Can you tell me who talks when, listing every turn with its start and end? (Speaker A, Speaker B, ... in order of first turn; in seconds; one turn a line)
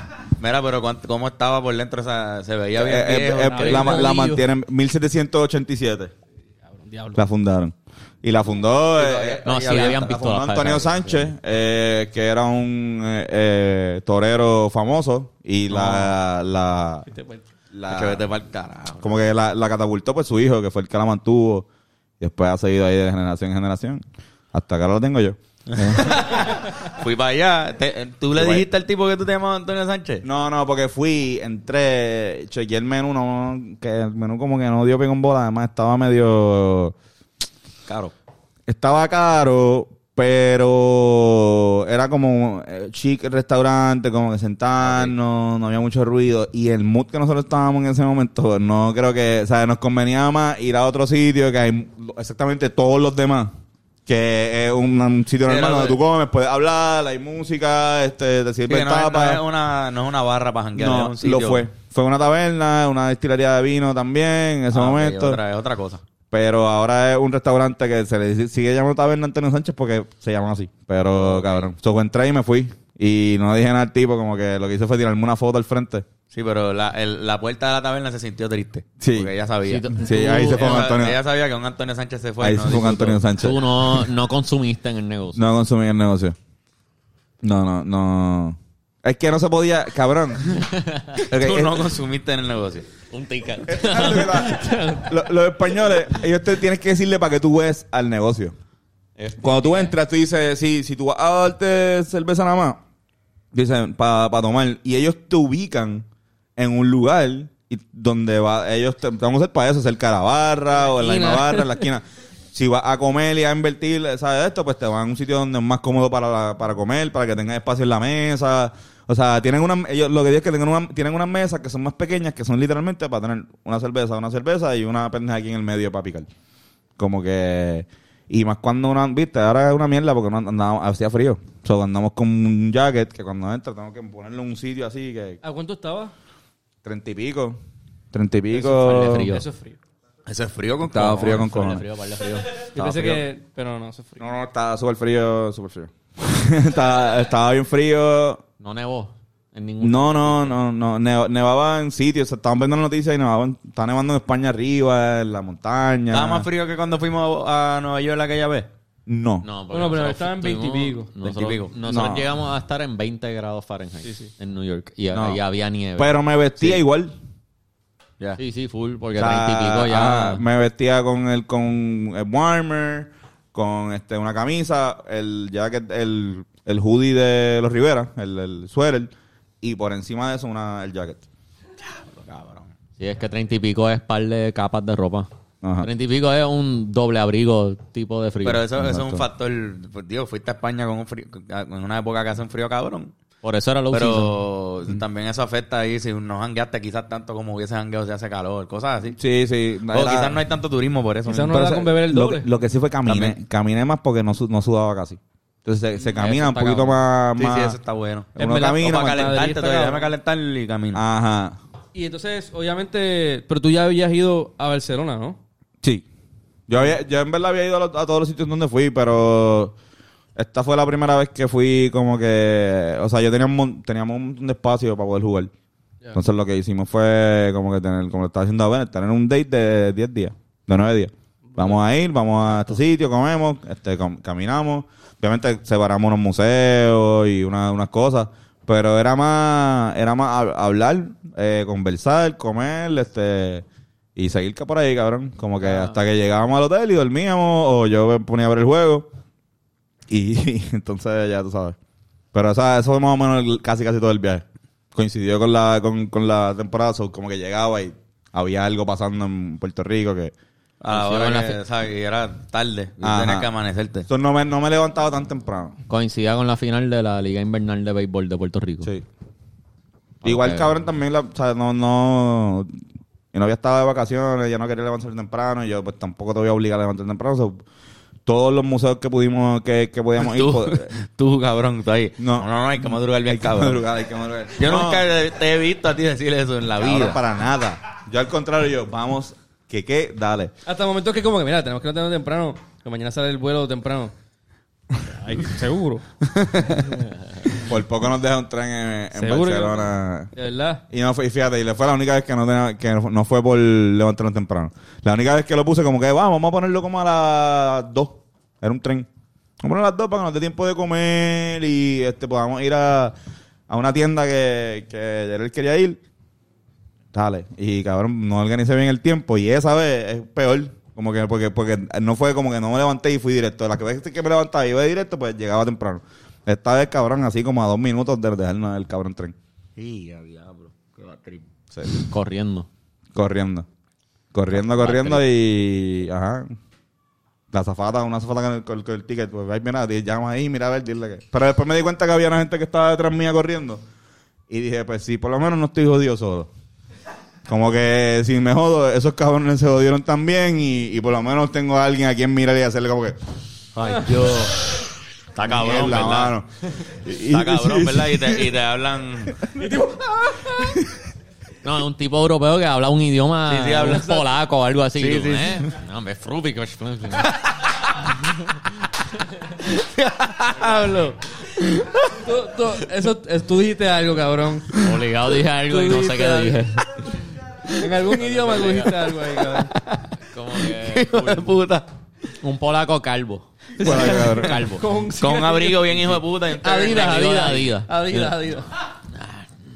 Speaker A: 0.4-4.1
Speaker B: 2.8-6.1
Speaker C: 3.5-4.5
Speaker C: 6.7-7.2
Speaker B: 7.2-17.1
Speaker A: 9.0-9.8
Speaker D: 9.4-11.3
Speaker C: 17.1-17.4
Speaker B: 17.7-18.3
Speaker A: 17.9-19.1
Speaker B: 19.0-21.7
Speaker B: 22.2-24.0
Speaker B: 24.5-26.4
Speaker A: 25.7-30.2
Speaker C: 26.3-26.7
Speaker B: 28.4-28.6
Speaker B: 30.2-37.0
Speaker A: 37.9-38.1
Speaker B: 38.7-53.5
Speaker A: 44.8-45.1
Speaker B: 54.1-59.4
Speaker A: 55.5-56.0
Speaker A: 58.7-61.6
Speaker B: 60.8-65.4
Speaker A: 64.7-66.0
Speaker B: 66.3-76.1
Speaker A: 71.2-71.7
Speaker A: 76.3-83.2
Speaker B: 79.0-79.3
Speaker D: 79.7-80.9
Speaker B: 79.9-81.2
Speaker B: 82.4-84.1
Speaker D: 83.4-85.4
Speaker B: 85.3-86.4
Speaker B: 87.4-90.6
Speaker D: 90.6-91.2
Speaker B: 91.3-91.9
Speaker A: 91.3-92.9
Speaker D: 93.1-95.2
Speaker B: 93.7-98.5
Speaker D: 99.2-99.9
Speaker B: 99.4-102.8
Speaker B: 103.5-106.0
Speaker B: 106.6-126.3
Speaker C: 110.9-111.8
Speaker B: 127.0-135.4
Speaker C: 135.4-136.1
Speaker B: 136.8-137.6
Speaker B: 138.1-139.3
Speaker C: 138.6-139.8
Speaker D: 138.6-139.4
Speaker A: 140.3-141.5
Speaker B: 140.9-141.9
Speaker D: 141.0-142.7
Speaker C: 142.7-144.2
Speaker B: 142.8-143.2
Speaker B: 144.2-148.4
Speaker D: 148.6-150.6
Speaker B: 149.8-156.5
Speaker A: 156.1-158.7
Speaker B: 159.1-159.5
Speaker D: 159.4-166.1
Speaker C: 159.7-161.1
Speaker A: 161.2-161.8
Speaker B: 161.8-162.3
Speaker C: 164.1-164.3
Speaker B: 165.1-165.4
Speaker B: 166.0-167.1
Speaker D: 168.4-170.4
Speaker B: 169.2-181.2
Speaker A: 182.2-182.7
Speaker D: 183.0-185.3
Speaker B: 185.6-185.9
Speaker D: 185.8-188.7
Speaker A: 188.4-193.1
Speaker B: 188.8-189.3
Speaker D: 193.4-194.4
Speaker A: 193.9-199.2
Speaker B: 199.2-200.4
Speaker A: 199.9-201.8
Speaker C: 201.3-202.5
Speaker B: 201.3-207.8
Speaker A: 203.1-203.4
Speaker D: 206.0-207.0
Speaker A: 207.4-211.0
Speaker B: 208.4-209.2
Speaker C: 208.4-210.1
Speaker B: 210.9-211.6
Speaker C: 211.9-215.4
Speaker B: 216.7-219.8
Speaker B: 220.4-225.5
Speaker B: 226.1-243.7
Speaker B: 244.2-249.1
Speaker D: 245.6-245.9
Speaker B: 250.1-251.8
Speaker B: 252.3-260.3
Speaker A: 260.8-264.1
Speaker D: 260.9-261.6
Speaker B: 263.0-263.5
Speaker B: 264.1-265.8
Speaker D: 265.9-268.9
Speaker D: 270.2-270.7
Speaker B: 270.2-272.8
Speaker B: 273.3-277.6
Speaker B: 278.3-280.9
Speaker A: 280.2-283.8
Speaker B: 282.2-285.1
Speaker A: 284.6-287.2
Speaker B: 286.8-290.5
Speaker C: 290.6-294.1
Speaker B: 295.0-295.4
Speaker C: 295.2-296.0
Speaker A: 296.2-296.9
Speaker C: 296.7-297.0
Speaker B: 297.5-300.3
Speaker C: 299.1-300.8
Speaker B: 300.9-309.1
Speaker B: 309.6-313.1
Speaker B: 313.7-316.0
Speaker B: 317.1-329.4
Speaker A: 329.8-331.5
Speaker D: 332.1-332.7
Speaker B: 333.1-333.7
Speaker B: 334.3-336.6
Speaker D: 334.5-335.2
Speaker B: 337.5-343.8
Speaker B: 344.5-346.5
Speaker B: 347.5-353.2
Speaker A: 353.8-356.4
Speaker B: 355.5-358.5
Speaker D: 355.6-356.2
Speaker A: 357.3-359.4
Speaker C: 359.6-360.8
Speaker D: 361.6-367.4
Speaker A: 363.5-364.1
Speaker C: 363.9-364.3
Speaker A: 365.0-365.7
Speaker A: 369.6-372.1
Speaker C: 370.6-371.1
Speaker C: 372.2-374.8
Speaker A: 374.7-375.0
Speaker D: 374.8-377.2
Speaker C: 375.6-376.7
Speaker C: 377.7-379.7
Speaker D: 378.1-379.0
Speaker A: 379.1-381.9
Speaker D: 380.2-381.6
Speaker D: 382.4-384.9
Speaker C: 383.8-385.9
Speaker B: 383.8-384.6
Speaker A: 385.2-387.6
Speaker C: 386.5-388.8
Speaker D: 386.8-388.5
Speaker D: 389.1-389.5